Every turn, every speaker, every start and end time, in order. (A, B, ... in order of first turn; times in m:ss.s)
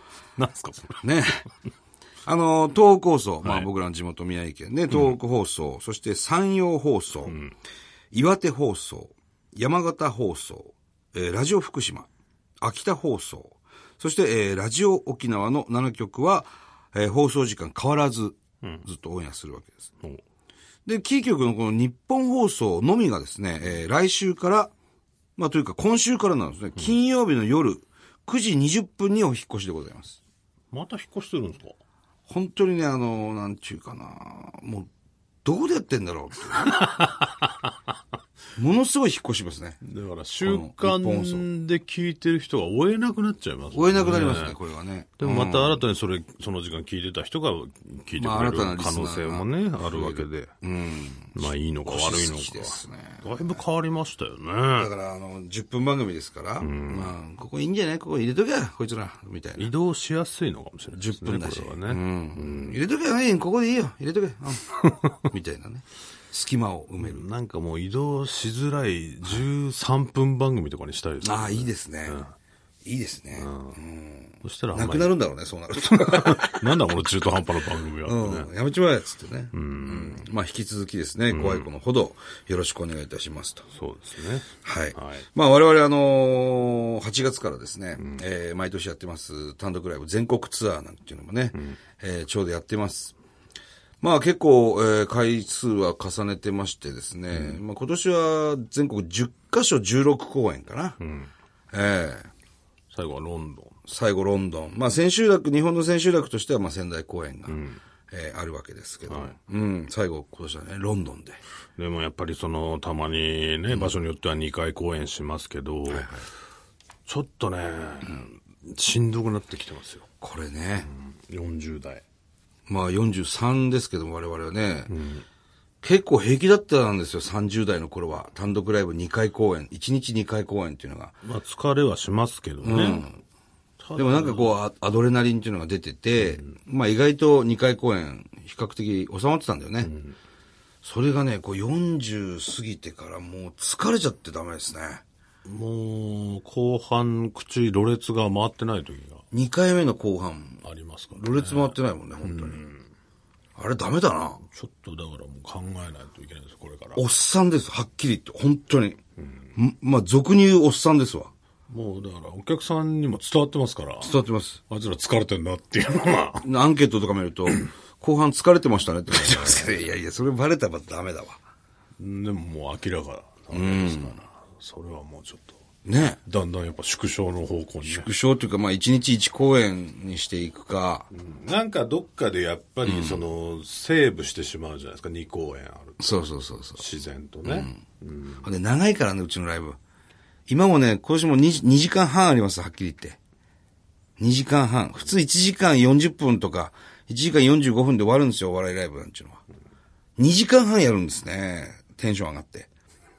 0:00.4-0:01.0 A
0:01.0-0:01.5 B
0:02.2-0:07.4 B
0:07.2-0:07.5 A
0:08.1-0:12.1 B
0:12.6-0:19.9 B
0:20.8-0:24.7 B
0:25.4-0:30.2 B
0:30.7-0:31.8 A
0:32.3-0:34.9 B
0:35.4-0:36.8 B
0:36.6-0:37.7 A
0:38.6-0:39.8 B
0:39.8-0:44.6 A
0:40.4-0:41.4 B
0:43.7-0:45.8 B
0:45.2-0:50.5 A
0:48.2-0:53.6 B
0:51.3-0:54.9 A
0:54.8-0:59.7 B
0:56.6-0:57.1 A
0:59.6-1:02.8 A
1:00.9-1:04.7 B
1:04.7-1:05.2 A
1:05.2-1:07.2 B
1:07.0-1:12.3 A
1:11.2-1:12.2 B
1:12.8-1:16.8 B
1:13.4-1:13.8 A
1:14.4-1:15.1 A
1:15.9-1:18.5 A
1:18.0-1:23.7 B
1:19.5-1:20.3 A
1:21.3-1:21.7 A
1:23.7-1:25.3 A
1:24.6-1:33.1 B
1:28.0-1:28.2 A
1:31.5-1:31.8 A
1:34.0-1:41.0 B
1:37.3-1:37.6 A
1:41.0-1:41.3 A
1:41.7-1:42.3 B
1:42.9-1:43.8 A
1:43.8-1:47.6 B
1:47.5-1:47.8 A
1:48.1-1:51.4 B
1:49.1-1:49.3 A
1:51.8-1:56.1 A
1:53.7-1:54.0 B
1:55.9-1:56.3 B
1:57.1-2:00.0 A
2:00.2-2:00.9 B
2:00.8-2:02.0 A
2:02.7-2:04.9 B
2:04.9-2:05.2 A
2:05.8-2:11.1 B
2:11.2-2:13.0 A
2:12.6-2:13.2 B
2:13.8-2:14.6 A
2:14.0-2:19.9 B
2:16.2-2:16.5 A
2:19.8-2:20.2 A
2:20.8-2:25.0 B
2:25.4-2:29.2 A
2:29.3-2:30.6 B
2:30.6-2:32.9 A
2:31.1-2:32.6 B
2:33.6-2:34.4 B
2:34.4-2:37.0 A
2:36.9-2:39.0 B
2:39.2-2:39.5 A
2:39.5-2:41.3 B
2:41.7-2:44.2 A
2:44.0-2:44.6 B
2:44.7-2:46.4 A
2:46.4-2:51.4 B
2:49.1-2:49.9 A
2:52.0-2:55.6 A
2:53.5-2:54.2 B
2:55.8-2:56.2 B
2:56.2-2:58.1 A
2:57.8-3:01.1 B
3:01.1-3:06.2 A
3:02.8-3:03.2 B
3:06.0-3:06.8 B
3:06.8-3:08.4 A
3:07.4-3:07.8 B
3:08.4-3:09.8 B
3:10.5-3:13.2 B
3:14.2-3:19.4 B
3:20.2-3:22.7 B